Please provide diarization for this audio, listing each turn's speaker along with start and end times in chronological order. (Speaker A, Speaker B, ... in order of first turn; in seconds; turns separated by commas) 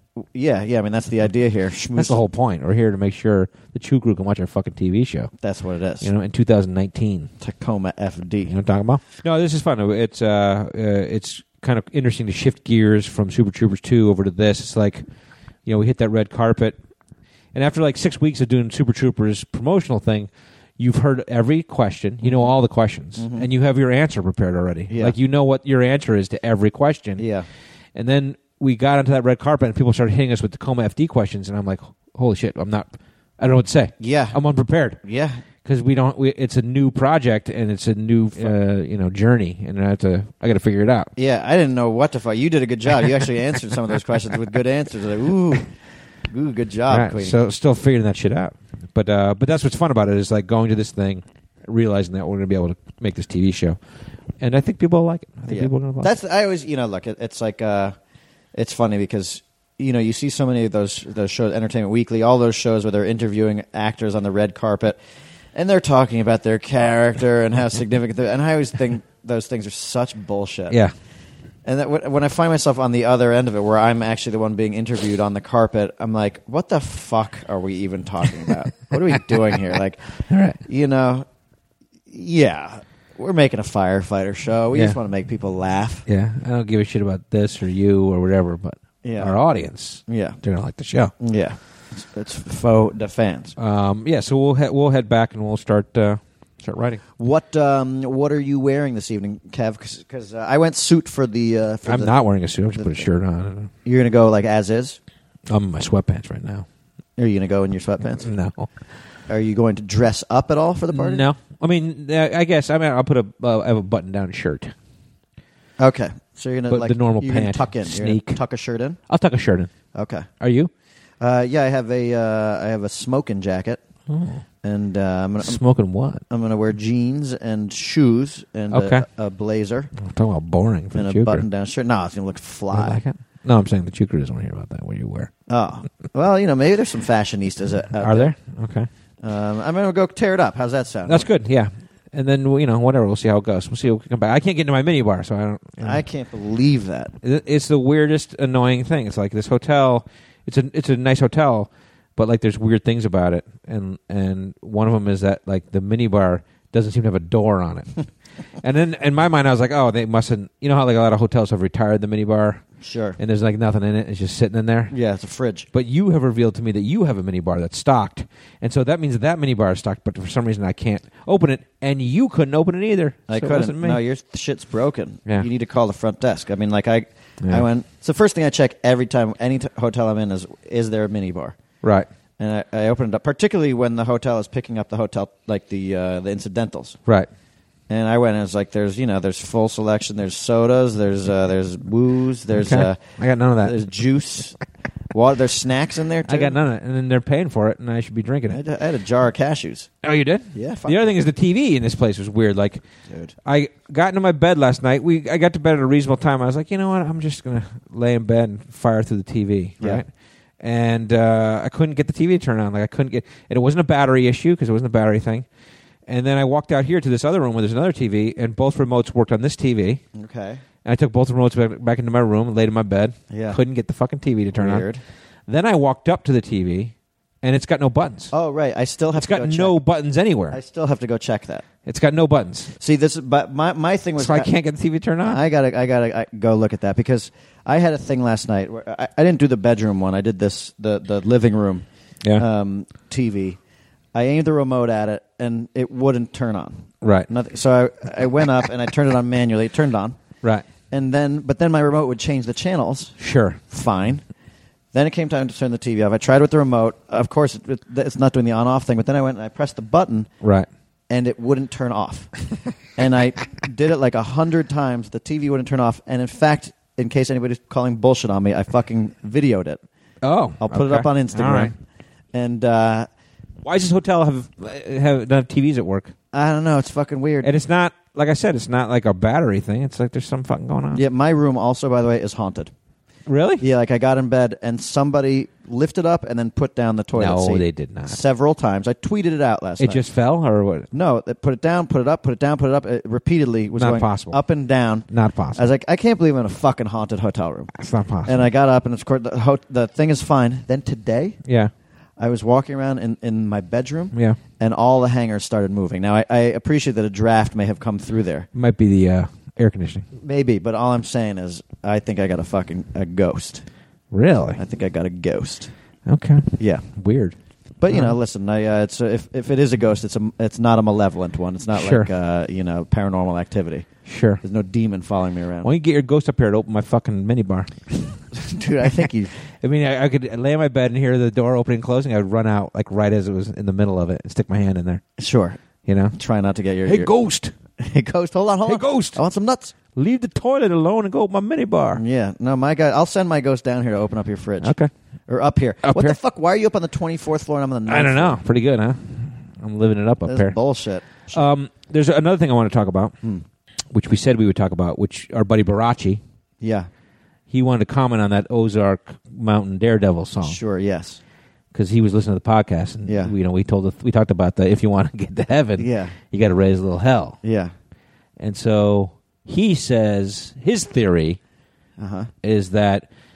Speaker A: 0.2-2.2, Speaker B: 1.9-5.3, Speaker A: 5.4-6.1, Speaker B: 6.0-7.3, Speaker A: 7.4-8.5, Speaker B: 8.5-15.0, Speaker B: 15.6-16.8, Speaker B: 17.5-27.2, Speaker A: 22.2-22.5, Speaker A: 23.2-23.5, Speaker A: 24.9-25.1, Speaker A: 27.2-27.5, Speaker B: 27.9-35.0, Speaker A: 34.0-34.4, Speaker A: 35.0-35.4, Speaker B: 35.6-41.1, Speaker A: 41.1-45.7, Speaker A: 46.3-47.4, Speaker B: 46.9-53.8, Speaker B: 54.4-56.1, Speaker A: 55.5-57.9, Speaker A: 58.5-65.0, Speaker A: 65.5-70.8, Speaker A: 71.6-81.2, Speaker B: 80.3-80.6, Speaker A: 82.1-86.0, Speaker B: 86.1-91.1, Speaker A: 89.0-89.3, Speaker A: 90.1-90.4, Speaker A: 91.2-93.5, Speaker B: 93.6-97.0, Speaker A: 97.2-102.1, Speaker B: 101.8-103.7, Speaker A: 102.8-103.1, Speaker A: 103.8-105.0, Speaker B: 105.5-106.7, Speaker A: 107.2-108.3, Speaker B: 108.2-108.7, Speaker A: 109.3-111.2, Speaker B: 110.9-114.7, Speaker A: 115.8-119.0, Speaker B: 116.7-118.4, Speaker B: 119.1-119.7, Speaker A: 119.9-120.3, Speaker B: 120.4-120.7, Speaker A: 121.2-123.8, Speaker B: 124.1-124.4, Speaker A: 124.6-125.6, Speaker B: 125.4-126.2, Speaker A: 126.3-129.9, Speaker B: 128.7-129.1, Speaker B: 130.0-131.4, Speaker A: 130.9-133.0, Speaker B: 132.7-135.3, Speaker A: 135.5-138.3, Speaker B: 138.0-138.9, Speaker A: 139.2-141.3, Speaker B: 141.1-146.0, Speaker A: 145.8-147.1, Speaker B: 147.2-158.0, Speaker B: 158.6-162.6, Speaker A: 162.8-163.2, Speaker B: 163.2-164.9, Speaker A: 164.9-165.7, Speaker B: 165.7-174.0, Speaker A: 173.3-181.6, Speaker A: 182.4-187.0, Speaker A: 187.9-193.0, Speaker B: 192.6-193.8, Speaker A: 193.6-194.6, Speaker A: 195.1-196.6, Speaker B: 196.2-198.6, Speaker A: 198.5-199.9, Speaker B: 200.0-202.8, Speaker A: 200.5-201.1, Speaker B: 203.4-210.1, Speaker B: 210.6-215.4, Speaker B: 216.1-220.0, Speaker A: 220.1-220.6, Speaker B: 220.8-224.8, Speaker A: 223.3-223.6, Speaker A: 224.6-225.0, Speaker B: 225.5-228.3, Speaker A: 228.3-229.8, Speaker B: 229.1-230.6, Speaker A: 230.5-231.7, Speaker B: 231.8-232.7, Speaker A: 232.8-234.5, Speaker B: 234.2-235.4, Speaker A: 235.2-243.6, Speaker A: 244.1-250.2, Speaker B: 247.0-247.3, Speaker A: 250.9-254.2, Speaker B: 253.2-253.6, Speaker A: 254.9-260.3, Speaker B: 260.4-260.7, Speaker A: 261.1-262.3, Speaker A: 262.9-269.8, Speaker B: 270.2-271.7, Speaker A: 270.6-271.7, Speaker A: 272.3-273.1, Speaker B: 273.6-276.1, Speaker A: 276.3-277.5, Speaker B: 277.4-281.0, Speaker A: 280.9-282.7, Speaker B: 283.3-283.6, Speaker A: 283.6-290.0, Speaker B: 287.1-288.2, Speaker B: 289.8-290.9, Speaker A: 290.9-297.7, Speaker B: 293.8-294.4, Speaker B: 295.1-295.7, Speaker B: 297.7-298.5, Speaker A: 298.2-301.4, Speaker B: 301.4-301.7, Speaker A: 302.2-308.5, Speaker B: 304.1-304.4, Speaker B: 308.5-310.1, Speaker A: 310.2-313.6, Speaker B: 314.1-314.6, Speaker A: 314.6-315.7, Speaker B: 316.1-317.4, Speaker A: 316.6-316.8, Speaker A: 317.8-323.9, Speaker B: 317.9-318.2, Speaker B: 321.8-322.1, Speaker B: 324.1-324.4, Speaker A: 324.4-325.7, Speaker B: 325.6-328.2, Speaker A: 328.3-329.3, Speaker B: 329.6-335.0, Speaker A: 335.2-335.6, Speaker B: 335.9-336.1, Speaker A: 336.1-337.1, Speaker B: 336.8-337.5, Speaker A: 337.8-339.7, Speaker B: 338.6-339.2, Speaker B: 339.9-342.0, Speaker A: 341.9-344.7, Speaker B: 344.6-344.9, Speaker A: 345.3-348.4, Speaker B: 345.8-346.2, Speaker B: 347.9-350.6, Speaker A: 350.2-351.5, Speaker B: 351.3-353.2, Speaker B: 353.9-356.2, Speaker A: 356.6-356.9, Speaker B: 357.5-360.6, Speaker A: 360.4-361.2, Speaker B: 361.7-367.4, Speaker A: 363.1-363.3, Speaker A: 365.8-366.1, Speaker A: 367.4-367.7, Speaker B: 368.4-371.4, Speaker A: 372.0-372.3, Speaker B: 372.4-373.1